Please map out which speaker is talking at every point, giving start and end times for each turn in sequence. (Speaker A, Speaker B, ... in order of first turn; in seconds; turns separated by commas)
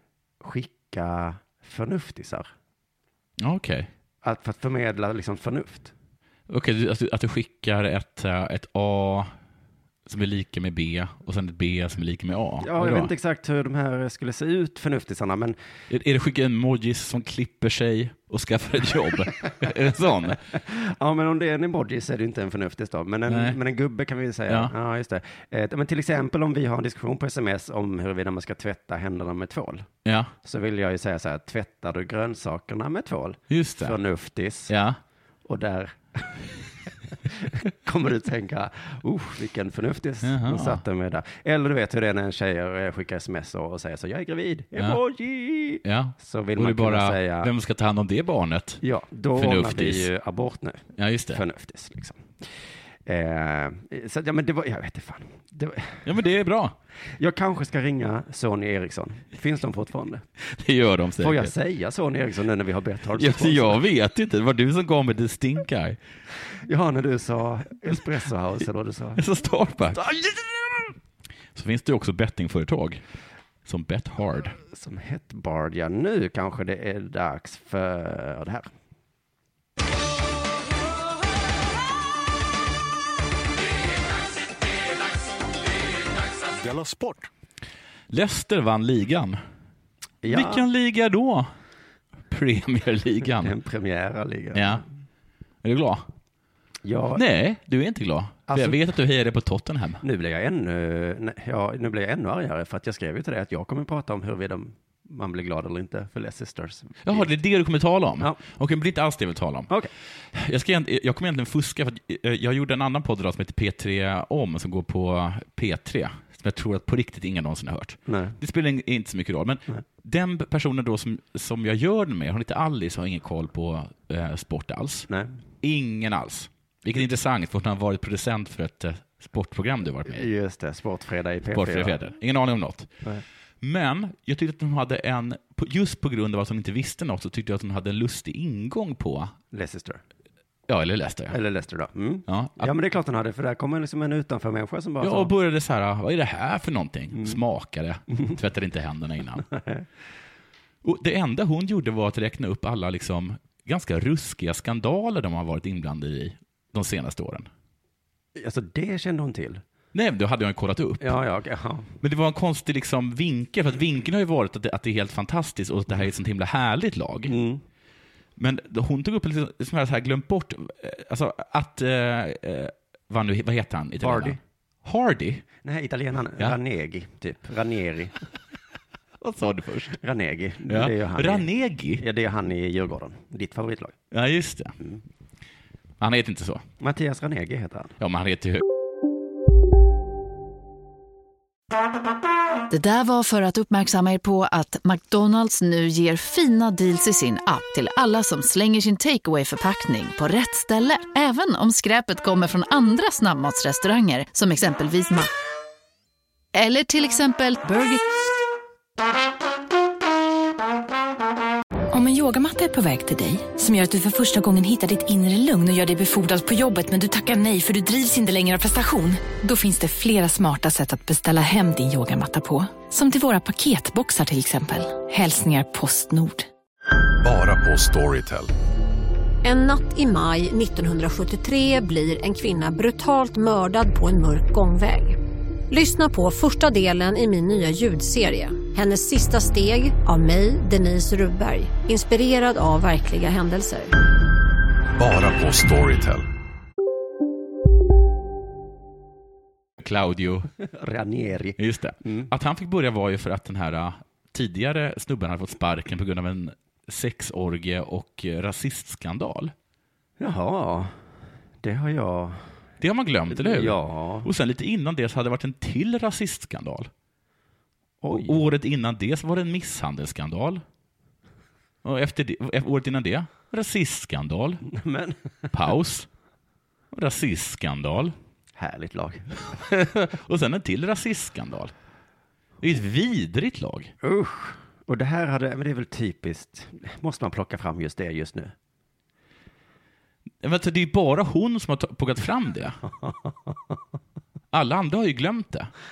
Speaker A: 0.4-2.5, Speaker B: 3.4-3.9, Speaker A: 4.2-5.9, Speaker B: 6.5-9.3, Speaker B: 10.1-13.1, Speaker A: 12.6-15.6, Speaker B: 15.9-20.4, Speaker A: 20.3-29.9, Speaker B: 23.3-23.6, Speaker B: 24.5-24.7, Speaker B: 30.0-30.3, Speaker A: 30.4-34.7, Speaker B: 33.5-34.0, Speaker B: 34.7-35.0, Speaker A: 35.4-36.7, Speaker A: 37.2-47.5, Speaker B: 40.2-40.8, Speaker B: 45.8-48.8, Speaker A: 48.8-52.5, Speaker B: 49.3-50.1, Speaker B: 51.0-51.4, Speaker A: 53.0-56.0, Speaker B: 56.0-56.8, Speaker A: 57.2-60.2, Speaker B: 60.4-61.5, Speaker A: 61.2-63.8, Speaker B: 63.2-66.0, Speaker A: 66.6-69.2, Speaker B: 69.2-70.0, Speaker A: 69.9-70.9, Speaker B: 71.5-73.0, Speaker B: 73.6-74.6, Speaker A: 74.7-78.7, Speaker B: 88.1-89.4, Speaker A: 90.2-90.6, Speaker B: 90.2-91.5, Speaker B: 92.3-93.5, Speaker A: 93.4-94.8, Speaker B: 94.5-94.8, Speaker B: 95.6-96.1, Speaker A: 96.8-97.2, Speaker B: 97.1-100.0, Speaker A: 98.5-98.8, Speaker A: 100.0-107.3, Speaker B: 107.0-109.7, Speaker B: 110.3-125.1, Speaker A: 118.1-118.3, Speaker A: 125.1-125.3, Speaker B: 125.6-130.3, Speaker A: 130.1-132.0, Speaker B: 131.5-132.9, Speaker B: 133.6-139.3, Speaker A: 139.5-140.0, Speaker B: 140.7-141.4, Speaker A: 141.3-145.3, Speaker B: 142.3-142.7, Speaker B: 145.0-149.4, Speaker A: 149.5-149.8, Speaker B: 150.8-157.5, Speaker A: 158.3-159.6, Speaker B: 159.9-161.2, Speaker A: 161.0-161.9, Speaker B: 162.0-167.3, Speaker A: 167.3-167.6, Speaker B: 168.4-175.4, Speaker A: 174.0-174.4, Speaker A: 175.6-178.2, Speaker B: 179.2-180.0, Speaker A: 180.0-183.9, Speaker B: 180.7-182.0, Speaker B: 184.1-184.7, Speaker B: 186.0-186.6, Speaker A: 186.8-187.9, Speaker B: 188.0-188.6, Speaker C: 192.7-205.3, Speaker C: 206.5-208.0, Speaker D: 211.9-226.5, Speaker E: 227.2-228.5, Speaker F: 229.4-235.2, Speaker F: 235.7-243.9, Speaker E: 245.0-246.2, Speaker B: 249.8-250.5, Speaker A: 250.7-252.3, Speaker B: 251.6-259.5, Speaker A: 260.2-260.9, Speaker A: 261.6-262.4, Speaker B: 262.8-266.9, Speaker A: 263.3-264.3, Speaker A: 268.0-268.4, Speaker B: 268.1-270.6, Speaker B: 271.8-274.6, Speaker A: 274.7-275.1, Speaker B: 275.5-276.1, Speaker B: 276.9-278.1, Speaker A: 278.6-279.3, Speaker B: 279.5-281.7, Speaker B: 282.6-283.9, Speaker A: 284.0-288.5, Speaker B: 290.4-292.8, Speaker A: 292.8-293.5, Speaker B: 294.5-295.7